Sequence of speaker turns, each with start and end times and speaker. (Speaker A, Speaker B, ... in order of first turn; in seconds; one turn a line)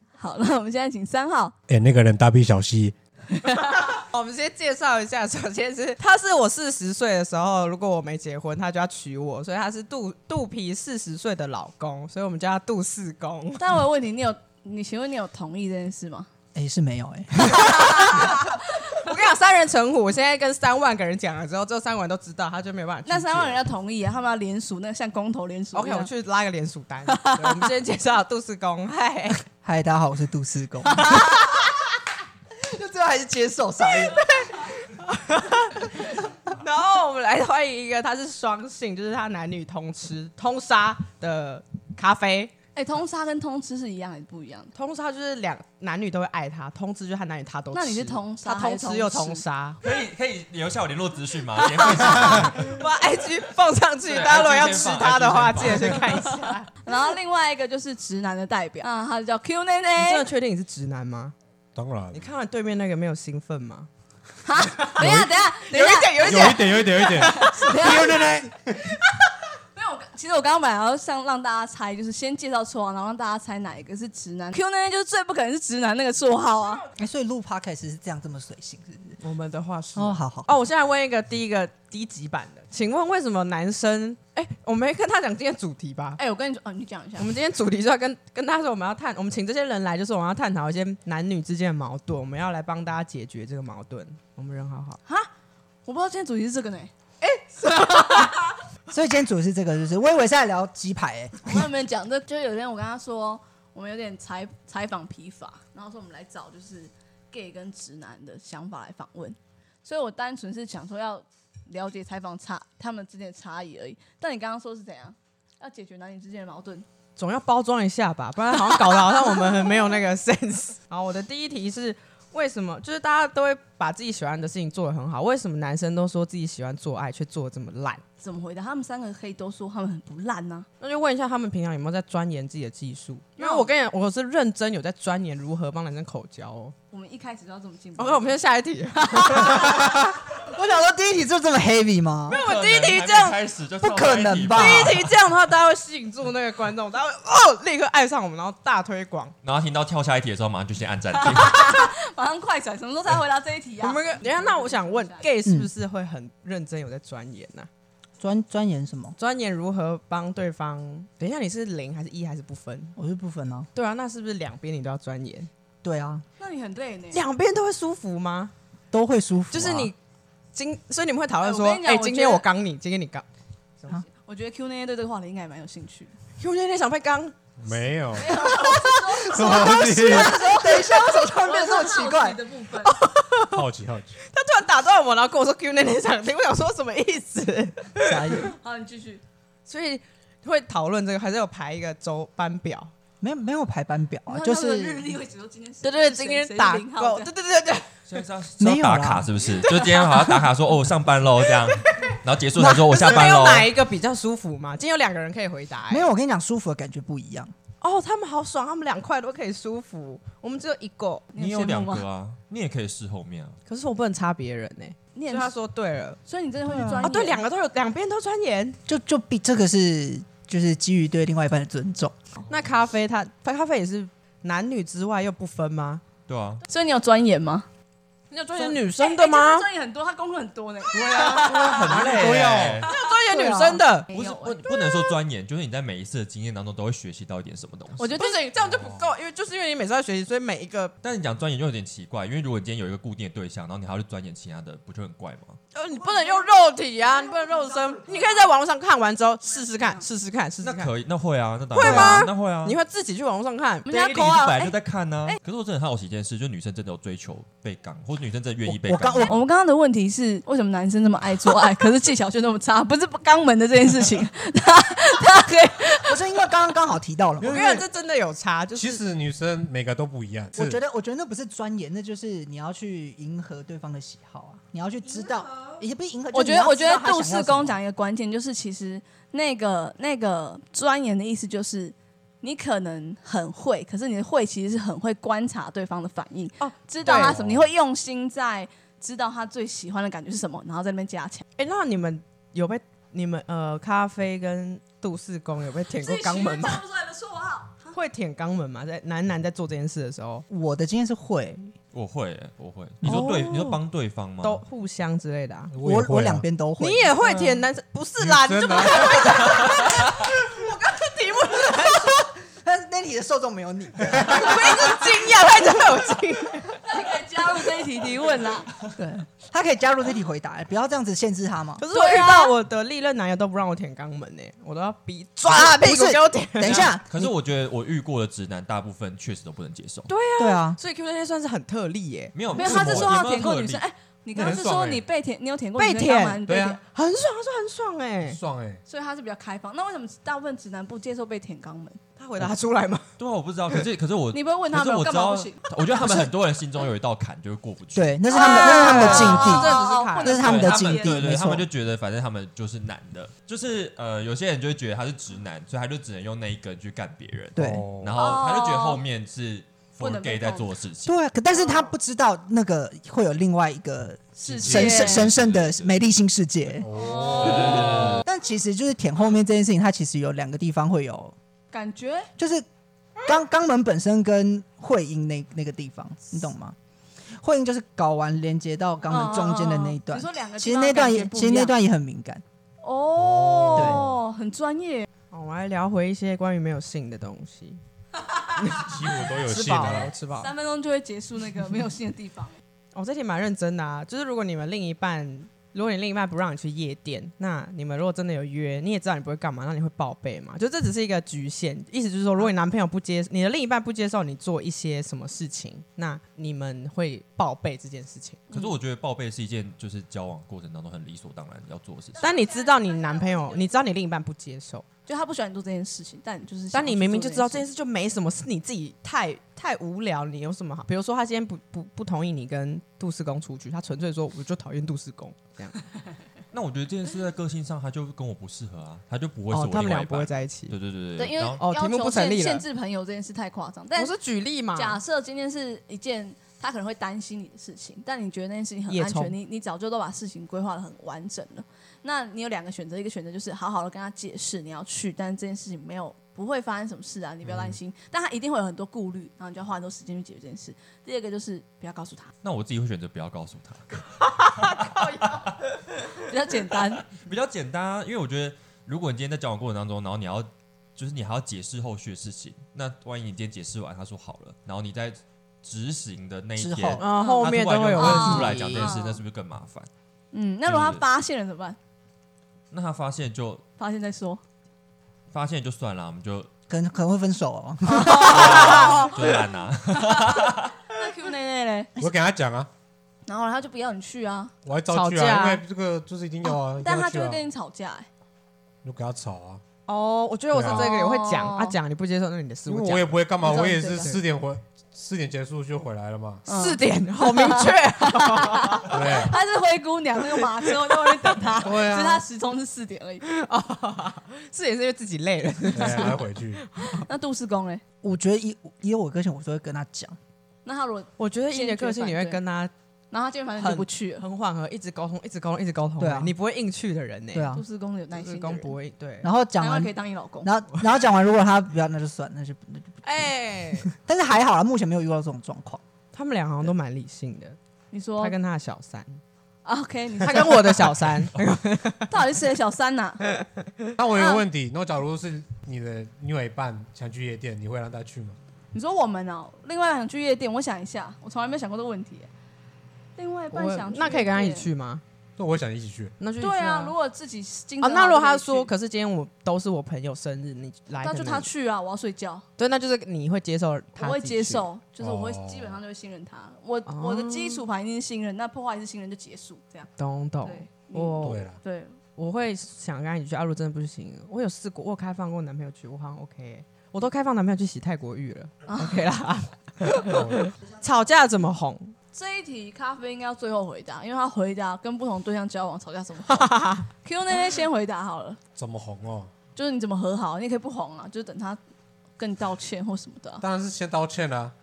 Speaker A: 0.2-1.5
Speaker B: 1.7-2.9
Speaker A: 3.3-3.8
Speaker C: 3.8-13.6
Speaker A: 13.6-16.3
Speaker D: 16.5-18.3
Speaker A: 17.5-19.1
Speaker C: 17.5-23.6
Speaker A: 23.1-26.1
Speaker C: 25.7-29.4
Speaker A: 27.1-27.7
Speaker D: 29.6-31.1
Speaker C: 31.1-31.5
Speaker D: 32.5-34.3
Speaker C: 33.9-42.5
Speaker A: 42.7-44.7
Speaker C: 44.7-49.8
Speaker A: 47.7-49.4
Speaker E: 49.8-52.8
Speaker C: 51.7-56.8
Speaker B: 52.2-52.5
Speaker E: 54.0-56.1
Speaker A: 56.8-60.3
Speaker C: 60.0-61.3
Speaker B: 61.7-62.2
Speaker C: 62.1-63.9
Speaker A: 64.4-68.3
Speaker C: 64.6-67.8
Speaker B: 65.0-65.4
Speaker B: 66.2-69.0
Speaker A: 69.7-76.8
Speaker D: 77.0-79.2
Speaker C: 79.2-86.2
Speaker D: 79.9-80.5
Speaker A: 86.2-87.3
Speaker C: 87.2-95.0
Speaker A: 95.8-96.9
Speaker C: 97.2-98.3
Speaker A: 97.9-98.4
Speaker D: 98.9-101.7
Speaker A: 101.4-116.8
Speaker C: 117.2-128.0
Speaker A: 128.2-130.7
Speaker C: 130.8-136.7
Speaker A: 133.4-133.7
Speaker A: 136.9-138.3
Speaker C: 137.9-139.7
Speaker A: 139.0-140.0
Speaker D: 139.6-142.4
Speaker C: 142.3-143.4
Speaker E: 142.3-145.1
Speaker D: 143.8-145.0
Speaker C: 144.5-149.3
Speaker E: 149.4-151.7
Speaker A: 151.2-155.2
Speaker C: 153.8-157.7
Speaker D: 155.4-155.7
Speaker D: 158.2-159.2
Speaker C: 159.2-162.9
Speaker D: 162.9-163.7
Speaker C: 163.7-165.5
Speaker D: 165.8-166.2
Speaker A: 166.4-167.2
Speaker C: 167.1-168.5
Speaker D: 168.9-169.9
Speaker C: 169.5-170.0
Speaker C: 170.5-173.2
Speaker A: 171.4-172.4
Speaker A: 174.1-176.1
Speaker C: 176.4-177.3
Speaker B: 177.6-178.4
Speaker A: 178.1-182.9
Speaker C: 178.2-180.8
Speaker B: 179.2-180.3
Speaker D: 179.9-182.4
Speaker C: 182.8-183.6
Speaker B: 183.5-184.2
Speaker C: 184.2-188.5
Speaker D: 188.0-188.5
Speaker A: 188.5-189.2
Speaker C: 189.7-192.9
Speaker D: 193.2-195.1
Speaker A: 194.3-197.3
Speaker C: 195.8-197.9
Speaker E: 198.1-203.7
Speaker D: 198.6-199.4
Speaker C: 201.7-206.1
Speaker D: 205.9-207.5
Speaker C: 207.8-211.3
Speaker A: 211.3-212.0
Speaker E: 211.3-213.6
Speaker C: 213.7-216.2
Speaker A: 215.1-215.5
Speaker A: 216.2-217.4
Speaker D: 216.7-217.1
Speaker C: 217.0-218.8
Speaker D: 218.8-222.2
Speaker C: 222.5-226.0
Speaker E: 226.3-226.6
Speaker A: 226.7-227.7
Speaker C: 228.3-229.7
Speaker A: 228.5-232.1
Speaker B: 230.9-232.9
Speaker E: 231.2-232.9
Speaker C: 232.8-234.1
Speaker A: 232.8-235.1
Speaker E: 234.1-238.1
Speaker A: 238.0-238.5
Speaker C: 238.2-240.9
Speaker B: 238.8-239.0
Speaker E: 241.0-245.6
Speaker C: 245.7-250.9
Speaker A: 247.7-248.4
Speaker A: 249.5-250.0
Speaker E: 250.6-252.8
Speaker C: 251.7-253.9
Speaker D: 251.8-252.2
Speaker A: 253.8-255.4
Speaker E: 253.9-259.3
Speaker D: 258.6-259.4
Speaker A: 259.3-266.2
Speaker D: 266.0-267.8
Speaker B: 267.4-267.8
Speaker C: 267.4-269.0
Speaker B: 268.7-270.8
Speaker D: 270.5-277.8
Speaker A: 276.3-291.4
Speaker C: 286.6-287.4
Speaker B: 287.1-287.6
Speaker C: 291.6-296.8
Speaker A: 295.9-298.0
Speaker C: 297.9-300.4
Speaker D: 300.5-301.7
Speaker E: 301.9-304.6
Speaker C: 303.0-303.8
Speaker C: 304.4-305.7
Speaker B: 305.7-306.4
Speaker D: 305.8-307.1
Speaker C: 306.8-312.2
Speaker B: 308.2-309.6
Speaker D: 311.7-315.1
Speaker C: 314.2-316.8
Speaker A: 316.8-318.7
Speaker D: 318.9-321.8
Speaker C: 321.8-326.9
Speaker A: 321.9-322.5
Speaker D: 325.4-327.3
Speaker E: 326.6-330.1
Speaker C: 330.1-333.0
Speaker D: 330.4-330.8
Speaker E: 332.3-333.8
Speaker A: 332.5-336.8
Speaker B: 334.3-335.0
Speaker C: 335.8-338.4
Speaker B: 336.4-336.8
Speaker B: 338.3-338.8
Speaker A: 338.9-342.0
Speaker C: 342.2-343.1
Speaker E: 343.2-348.1
Speaker A: 344.3-345.6
Speaker D: 346.0-346.3
Speaker D: 347.9-351.7
Speaker A: 348.3-351.2
Speaker C: 348.4-350.4
Speaker E: 349.0-349.6
Speaker E: 350.2-361.1
Speaker D: 357.5-357.9
Speaker B: 357.6-358.3
Speaker A: 358.2-359.0
Speaker A: 360.0-360.7
Speaker D: 361.1-366.9
Speaker A: 361.5-361.9
Speaker A: 364.4-365.3
Speaker B: 364.6-365.0
Speaker E: 364.8-365.9
Speaker B: 366.8-368.2
Speaker A: 366.9-368.0
Speaker E: 367.6-368.2
Speaker D: 368.2-371.3
Speaker A: 371.7-372.3
Speaker D: 372.4-372.6
Speaker D: 373.2-376.8
Speaker D: 377.4-382.4
Speaker A: 379.1-381.7
Speaker A: 382.8-385.1
Speaker B: 383.1-384.2
Speaker D: 383.7-384.0
Speaker C: 385.3-387.8
Speaker C: 388.6-390.5
Speaker B: 388.8-390.1
Speaker A: 390.3-392.6
Speaker C: 392.9-408.5
Speaker A: 408.5-408.8
Speaker E: 408.5-412.3
Speaker C: 412.2-414.8
Speaker A: 412.2-413.8
Speaker A: 415.1-417.6
Speaker C: 416.7-425.8
Speaker E: 426.5-431.6
Speaker C: 429.5-430.8
Speaker A: 431.2-434.1
Speaker C: 431.6-432.6
Speaker C: 433.9-435.0
Speaker A: 434.7-452.3
Speaker C: 438.9-439.3
Speaker E: 452.4-455.6
Speaker C: 454.2-455.5
Speaker A: 456.1-457.1
Speaker E: 457.1-469.9
Speaker D: 466.6-467.0
Speaker C: 467.0-468.9
Speaker A: 467.2-469.2
Speaker A: 470.3-471.8
Speaker E: 470.6-471.0
Speaker E: 472.7-473.6
Speaker A: 473.8-474.4
Speaker E: 475.3-476.5
Speaker D: 476.7-478.8
Speaker A: 477.8-481.9
Speaker E: 478.2-480.8
Speaker C: 478.5-478.9
Speaker B: 481.9-482.7
Speaker A: 483.2-484.6
Speaker B: 484.6-487.4
Speaker C: 484.9-485.6
Speaker A: 486.8-488.1
Speaker B: 488.8-489.6
Speaker C: 489.9-493.3
Speaker B: 490.5-490.9
Speaker A: 490.6-491.8
Speaker B: 492.7-496.4
Speaker A: 493.4-494.1
Speaker A: 496.5-503.2
Speaker C: 496.5-499.3
Speaker B: 498.9-499.3
Speaker C: 500.6-501.3
Speaker B: 501.6-502.2
Speaker C: 503.2-507.1
Speaker B: 505.7-506.6
Speaker A: 506.9-507.8
Speaker D: 508.0-510.2
Speaker A: 510.6-512.4
Speaker C: 511.2-512.7
Speaker A: 513.1-514.2
Speaker C: 513.5-517.5
Speaker D: 516.0-516.3
Speaker D: 517.3-517.6
Speaker A: 517.5-518.7
Speaker C: 518.1-519.3
Speaker D: 519.2-523.3
Speaker A: 519.6-520.5
Speaker C: 523.0-523.9
Speaker D: 523.9-525.8
Speaker C: 526.1-527.6
Speaker A: 527.9-528.3
Speaker C: 528.2-529.2
Speaker A: 529.6-530.8
Speaker C: 530.2-532.2
Speaker A: 532.1-533.2
Speaker C: 533.4-533.9
Speaker B: 534.0-538.4
Speaker A: 534.1-534.4
Speaker A: 538.7-542.3
Speaker A: 543.2-544.7
Speaker C: 543.5-545.0
Speaker B: 545.4-546.2
Speaker C: 546.2-546.9
Speaker A: 546.4-548.7
Speaker C: 547.8-551.5
Speaker A: 551.0-552.5
Speaker C: 552.6-554.7
Speaker A: 554.0-559.9
Speaker B: 555.0-555.8
Speaker C: 556.9-557.6
Speaker C: 560.0-561.5
Speaker A: 560.4-562.0
Speaker B: 561.2-561.6
Speaker C: 562.1-571.9
Speaker A: 568.7-569.0
Speaker B: 570.0-570.5
Speaker A: 572.1-578.4
Speaker C: 576.3-576.8
Speaker B: 578.5-579.3
Speaker A: 579.5-581.6
Speaker A: 582.2-583.4
Speaker B: 583.4-584.5